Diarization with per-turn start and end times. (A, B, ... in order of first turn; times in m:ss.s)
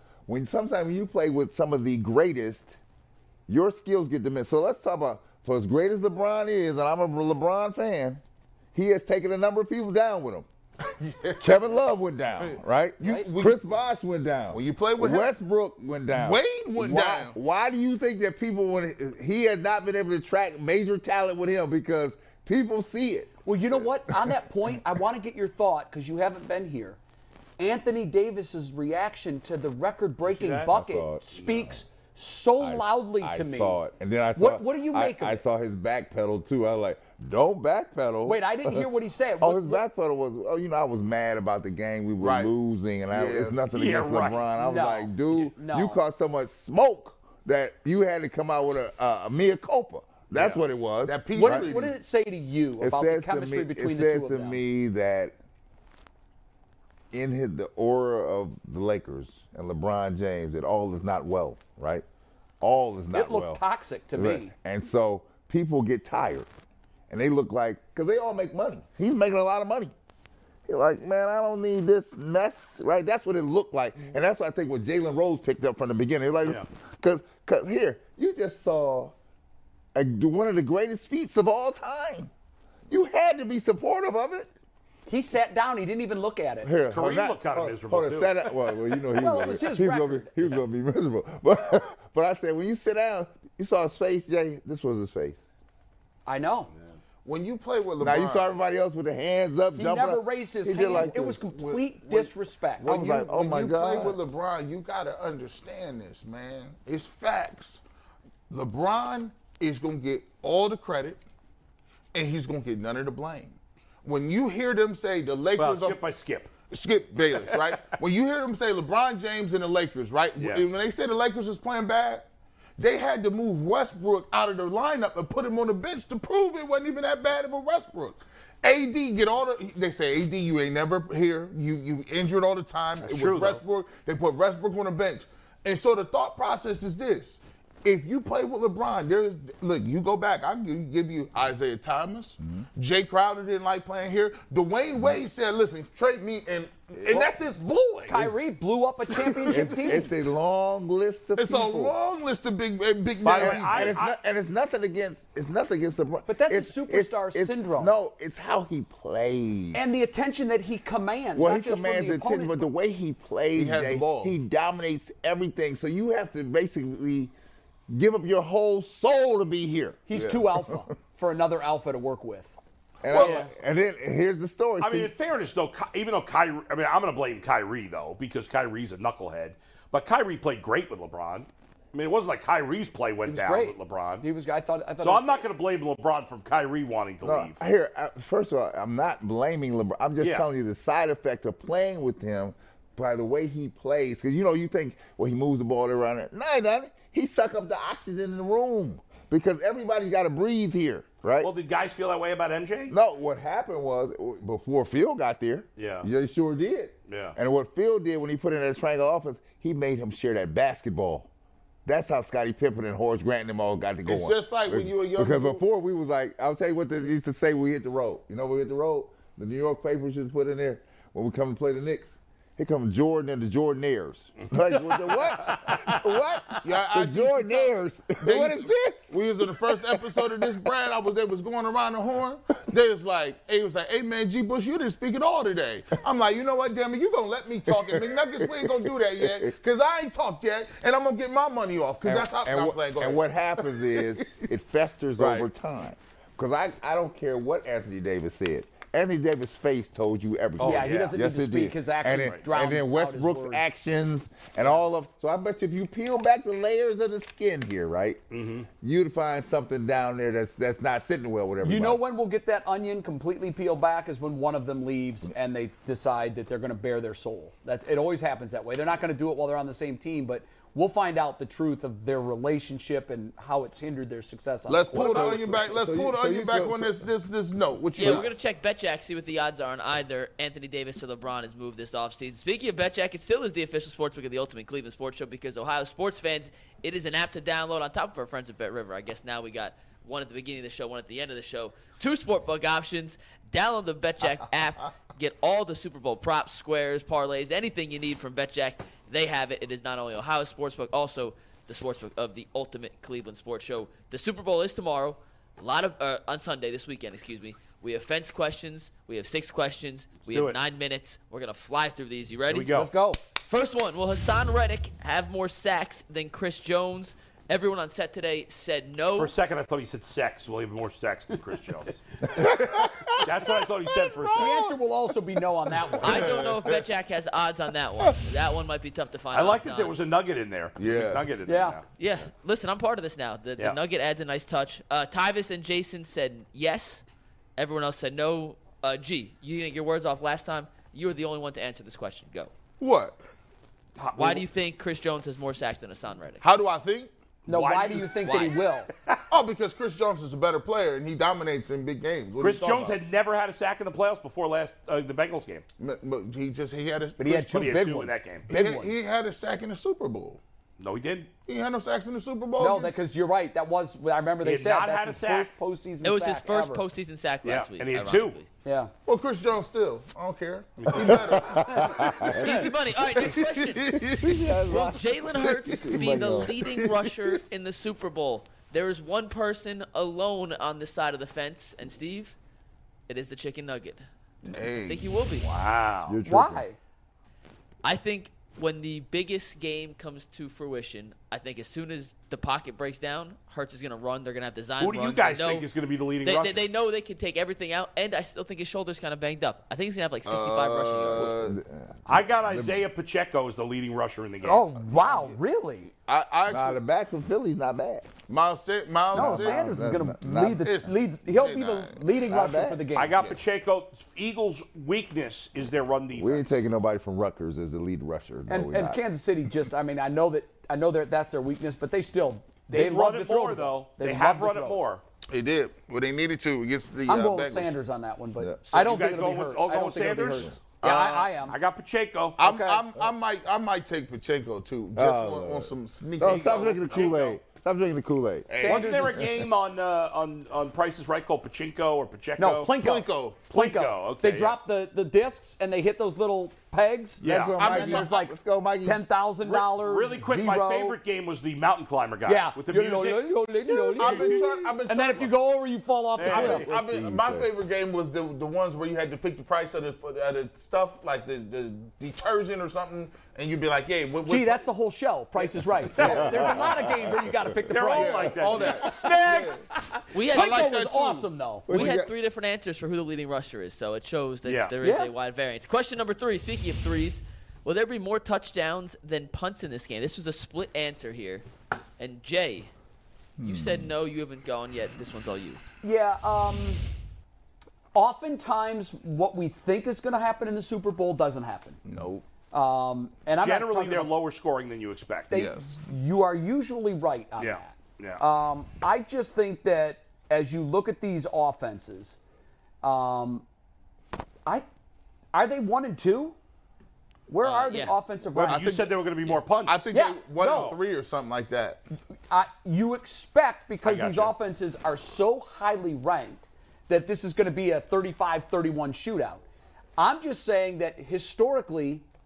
0:00.3-0:02.8 A
0:03.5-0:08.2 A
0:08.7-0:10.5 A
0:10.9-0:11.6 B
0:11.4-0:23.3 A
0:13.0-0:13.7 B
0:13.0-0:13.3 C
0:14.5-0:15.3 B
0:16.1-0:17.4 B
0:23.4-0:27.0 C
0:27.6-0:33.8 C
0:30.2-0:31.2 A
0:31.4-0:31.7 D
0:32.6-0:51.7 A
0:34.4-0:35.4 C
0:38.2-0:39.8 C
0:42.2-0:42.5 B
0:43.1-0:43.6 B
0:43.7-0:44.5 D
0:44.6-0:46.0 C
0:51.0-0:51.9 B
0:51.3-0:54.6 C
0:52.8-0:55.3 A
0:57.1-1:02.0 A
1:02.6-1:03.6 A
1:03.1-1:04.5 C
1:04.1-1:06.5 A
1:07.1-1:09.9 A
1:10.7-1:19.1 A
1:19.9-1:22.3 A
1:22.9-1:24.5 A
1:25.1-1:26.7 C
1:26.6-1:35.4 A
1:26.9-1:28.5 D
1:29.1-1:30.6 C
1:36.2-1:36.7 C
1:37.2-1:38.5 B
1:38.0-1:42.3 A
1:39.7-1:42.9 C
1:42.8-1:47.8 B
1:42.8-1:44.2 A
1:48.5-1:51.2 B
1:52.1-1:56.0 B
1:55.6-1:56.5 D
1:56.7-2:02.2 B
1:57.3-1:57.6 D
2:00.4-2:00.6 D
2:02.8-2:28.2 B
2:13.0-2:13.6 D
2:22.4-2:22.6 A
2:27.0-2:27.3 A
2:28.1-2:30.1 C
2:29.2-2:29.6 B
2:29.5-2:31.9 A
2:31.4-2:34.0 B
2:33.2-2:39.8 A
2:33.3-2:34.1 D
2:36.3-2:37.9 C
2:39.7-2:42.7 C
2:41.4-2:47.3 A
2:43.5-2:44.3 B
2:47.9-2:50.1 A
2:50.1-2:52.5 C
2:50.1-2:50.4 B
2:53.0-2:55.1 A
2:53.1-2:53.5 B
2:53.2-2:53.4 D
2:54.8-3:04.2 D
3:03.2-3:05.4 C
3:05.0-3:07.6 D
3:07.2-3:21.5 A
3:10.2-3:10.4 D
3:21.4-3:22.9 D
3:22.9-3:31.3 A
3:25.8-3:26.1 D
3:27.1-3:27.4 D
3:31.8-3:49.1 A
3:34.0-3:35.6 B
3:46.6-4:03.2 B
3:57.7-3:58.0 A
3:58.6-3:59.5 A
4:02.0-4:18.2 A
4:05.2-4:05.4 B
4:10.6-4:11.1 D
4:10.6-4:13.6 C
4:12.2-4:12.4 D
4:18.3-4:18.7 D
4:18.8-4:22.0 A
4:21.6-4:35.4 C
4:34.7-4:38.3 B
4:34.9-4:37.0 A
4:37.9-5:12.9 E
4:38.0-4:38.2 A
5:10.3-5:10.6 D
5:12.5-5:12.9 D
5:12.7-5:13.2 C
5:13.5-5:19.3 E
5:19.2-5:22.0 D
5:22.4-5:22.7 A
5:23.2-5:24.7 D
5:24.4-5:26.3 C
5:26.0-5:29.9 E
5:26.1-5:26.8 B
5:29.3-5:31.8 D
5:30.8-5:31.2 B
5:30.8-5:31.1 A
5:31.4-5:31.8 C
5:32.0-5:37.0 E
5:37.6-5:42.5 E
5:42.8-5:43.2 B
5:44.0-5:44.4 D
5:44.2-5:46.4 E
5:46.4-5:47.1 B
5:47.5-5:48.9 C
5:47.5-5:49.2 D
5:48.2-5:48.5 E
5:49.3-5:53.0 B
5:52.4-5:55.6 D
5:55.8-5:57.6 B
5:57.2-5:59.0 C
5:57.5-5:58.4 D
5:58.5-6:00.4 B
6:00.8-6:01.3 D
6:01.4-6:03.0 B
6:02.6-6:06.8 C
6:04.4-6:05.5 D
6:06.0-6:08.5 E
6:07.4-6:08.4 D
6:08.6-6:08.9 C
6:09.0-6:12.2 B
6:10.8-6:11.3 D
6:11.0-6:12.4 A
6:11.6-6:12.6 C
6:12.3-6:13.8 E
6:13.2-6:14.4 B
6:14.1-6:16.6 A
6:14.7-6:22.3 E
6:15.4-6:17.3 B
6:23.1-6:24.0 E
6:24.4-6:25.2 B
6:24.9-6:25.5 E
6:25.4-6:26.2 D
6:26.1-6:26.6 A
6:26.2-6:26.8 C
6:27.8-6:35.7 E
6:34.8-6:36.7 D
6:36.2-6:41.3 E
6:40.2-6:41.6 B
6:41.2-6:42.8 A
6:42.1-6:44.7 D
6:44.4-6:45.9 C
6:45.0-6:45.3 B
6:46.0-6:46.8 B
6:46.5-6:48.1 A
6:48.3-6:49.8 B
6:49.1-6:50.7 A
6:49.1-6:53.3 C
6:50.6-6:52.0 B
6:52.3-6:52.8 A
6:52.9-6:56.6 D
6:56.1-6:59.0 A
6:58.5-7:04.8 C
7:02.7-7:05.0 D
7:05.3-7:07.7 B
7:07.1-7:11.5 C
7:08.7-7:10.7 D
7:10.8-7:11.3 B
7:11.4-7:12.4 D
7:12.4-7:17.1 B
7:12.4-7:13.1 C
7:15.0-7:18.6 A
7:16.2-7:17.4 D
7:18.5-7:19.1 B
7:18.6-7:19.2 C
7:18.6-7:22.7 D
7:22.4-7:31.0 C
7:22.7-7:23.4 B
7:23.5-7:24.6 D
7:27.2-7:29.0 A
7:27.2-7:27.5 D
7:27.6-7:28.1 B
7:29.4-7:33.3 D
7:32.2-7:36.6 C
7:33.6-7:35.3 B
7:34.0-7:34.3 D
7:36.2-7:36.7 D
7:36.2-7:44.6 B
7:36.2-7:37.5 A
7:44.2-7:51.8 C
7:45.9-7:46.6 B
7:46.0-7:48.5 A
7:47.7-7:49.5 D
7:47.9-7:49.6 B
7:50.1-7:50.9 E
7:50.2-7:51.3 B
7:51.7-7:52.1 A
7:51.7-8:01.4 E
7:54.4-7:54.7 D
7:54.8-7:55.1 C
8:02.0-8:02.7 E
8:03.4-8:03.9 A
8:03.4-8:05.6 E
8:05.8-8:06.8 C
8:07.9-8:11.8 C
8:11.8-8:12.2 B
8:12.5-8:14.1 C
8:13.4-8:15.4 D
8:15.3-8:15.8 B
8:15.3-8:22.2 C
8:17.4-8:18.2 D
8:22.8-8:23.4 C
8:25.3-8:26.4 C
8:27.3-8:28.8 C
8:27.4-8:28.0 E
8:28.3-8:29.9 D
8:28.4-8:29.0 B
8:29.6-8:31.8 B
8:29.9-8:30.8 C
8:32.3-8:39.4 C
8:33.8-8:34.3 D
8:40.0-8:42.0 C